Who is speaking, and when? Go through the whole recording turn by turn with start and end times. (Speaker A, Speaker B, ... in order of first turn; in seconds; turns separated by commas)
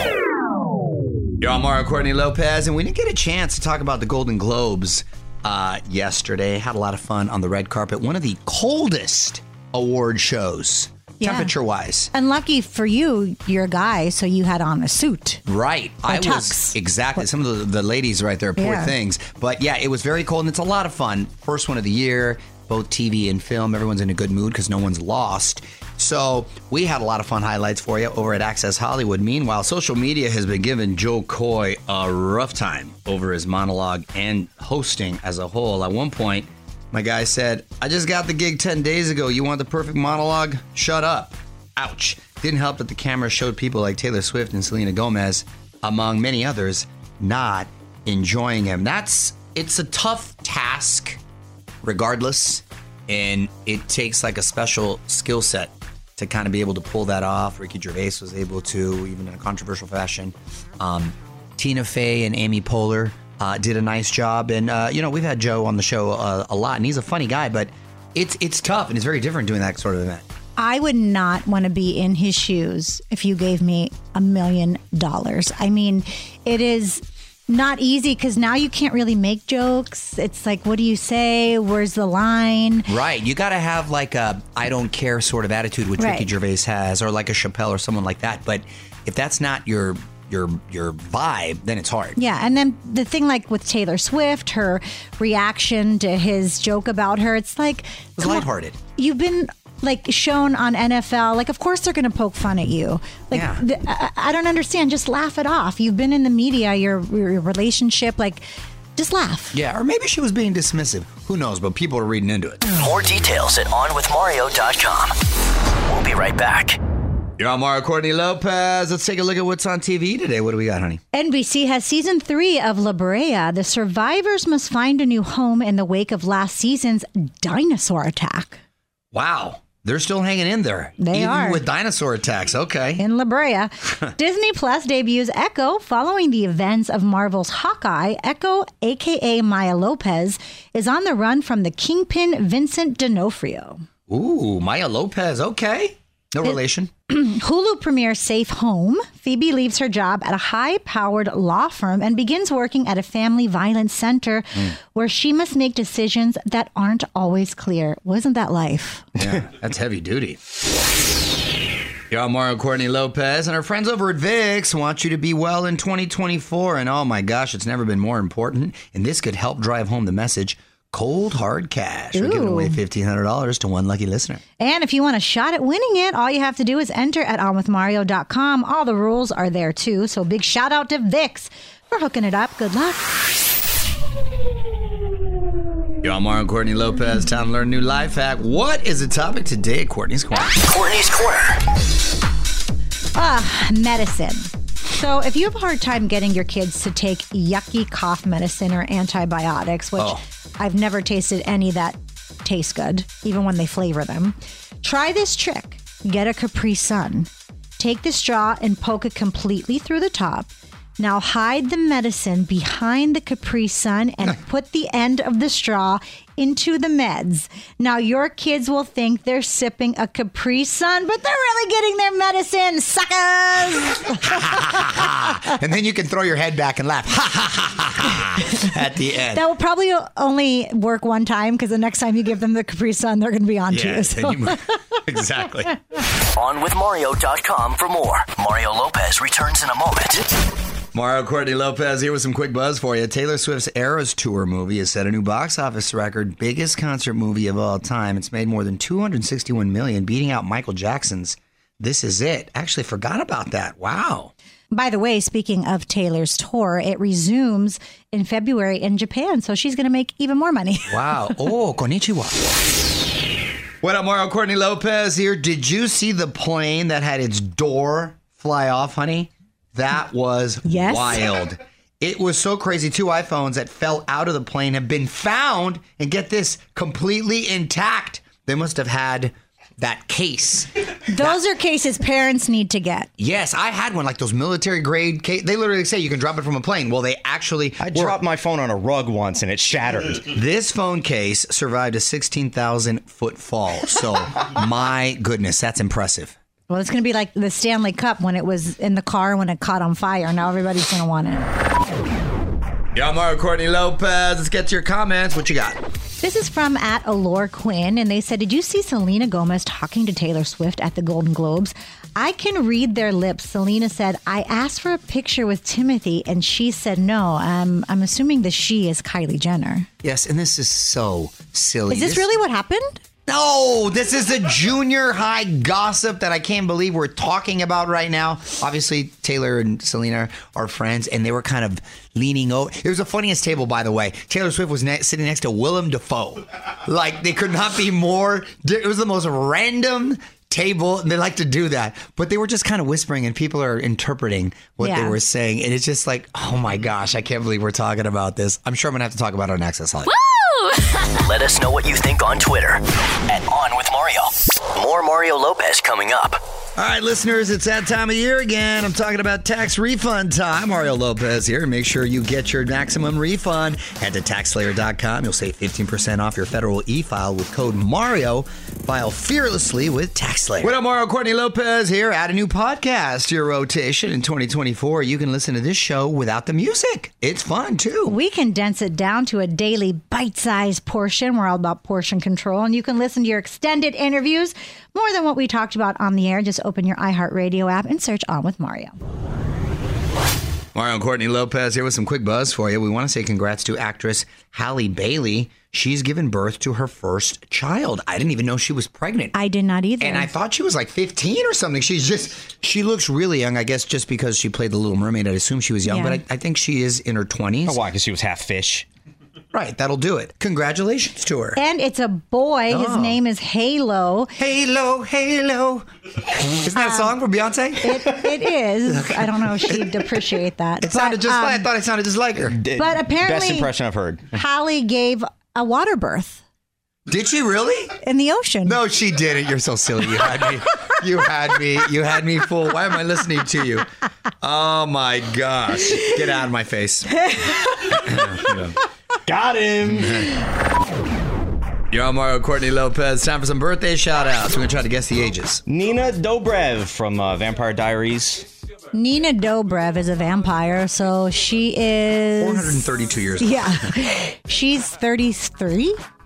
Speaker A: 1.4-12.1, Speaker B: 11.2-11.5, Speaker B: 12.1-15.4, Speaker A: 15.4-51.2, Speaker B: 16.0-16.8, Speaker B: 18.6-18.9, Speaker A: 51.8-70.2, Speaker B: 70.6-82.9, Speaker A: 82.9-92.2, Speaker B: 86.0-86.3, Speaker B: 92.2-98.5, Speaker A: 98.2-98.8, Speaker B: 99.0-108.4, Speaker A: 103.3-103.6, Speaker B: 109.0-109.6, Speaker A: 109.5-112.6, Speaker C: 112.8-115.2, Speaker C: 115.8-116.8, Speaker A: 117.4-121.0, Speaker B: 121.1-128.6, Speaker A: 129.1-133.0, Speaker B: 131.0-131.6, Speaker B: 133.0-143.8, Speaker A: 144.1-146.9, Speaker B: 146.4-159.1, Speaker A: 159.2-160.4, Speaker A: 162.1-174.4, Speaker B: 172.1-172.8, Speaker B: 174.6-183.2, Speaker A: 186.0-190.6, Speaker C: 190.5-191.6, Speaker B: 193.1-225.0, Speaker A: 224.2-229.4, Speaker B: 229.3-234.8, Speaker A: 233.7-235.8, Speaker C: 236.3-240.3, Speaker A: 240.9-254.3, Speaker B: 254.7-261.4, Speaker A: 260.9-262.5, Speaker A: 263.8-281.4, Speaker B: 270.6-271.2, Speaker B: 281.1-283.1, Speaker A: 283.2-288.2, Speaker D: 287.8-290.2, Speaker A: 290.2-296.4, Speaker B: 296.7-301.5, Speaker A: 302.9-305.8, Speaker B: 306.2-319.9, Speaker A: 320.0-322.2, Speaker B: 321.9-323.0, Speaker A: 323.2-350.2, Speaker B: 344.8-345.2, Speaker C: 351.1-356.4, Speaker A: 356.8-378.1, Speaker B: 378.1-388.9, Speaker A: 390.7-399.3, Speaker B: 399.3-400.3, Speaker A: 400.0-407.8, Speaker B: 405.8-406.2, Speaker D: 407.6-408.9, Speaker A: 409.5-411.6, Speaker B: 411.6-414.3, Speaker A: 412.7-413.2, Speaker A: 414.4-415.9, Speaker A: 416.4-418.3, Speaker B: 416.7-417.1, Speaker B: 417.8-421.7, Speaker A: 418.9-419.9, Speaker A: 420.8-422.6, Speaker D: 422.4-424.3, Speaker B: 422.8-423.7, Speaker B: 424.3-426.4, Speaker A: 427.1-427.9, Speaker B: 428.0-428.8, Speaker A: 428.6-433.9, Speaker A: 434.4-437.3, Speaker A: 438.0-438.8, Speaker D: 439.2-440.3, Speaker A: 441.9-445.6, Speaker D: 445.6-448.5, Speaker B: 448.9-456.0, Speaker A: 452.4-453.9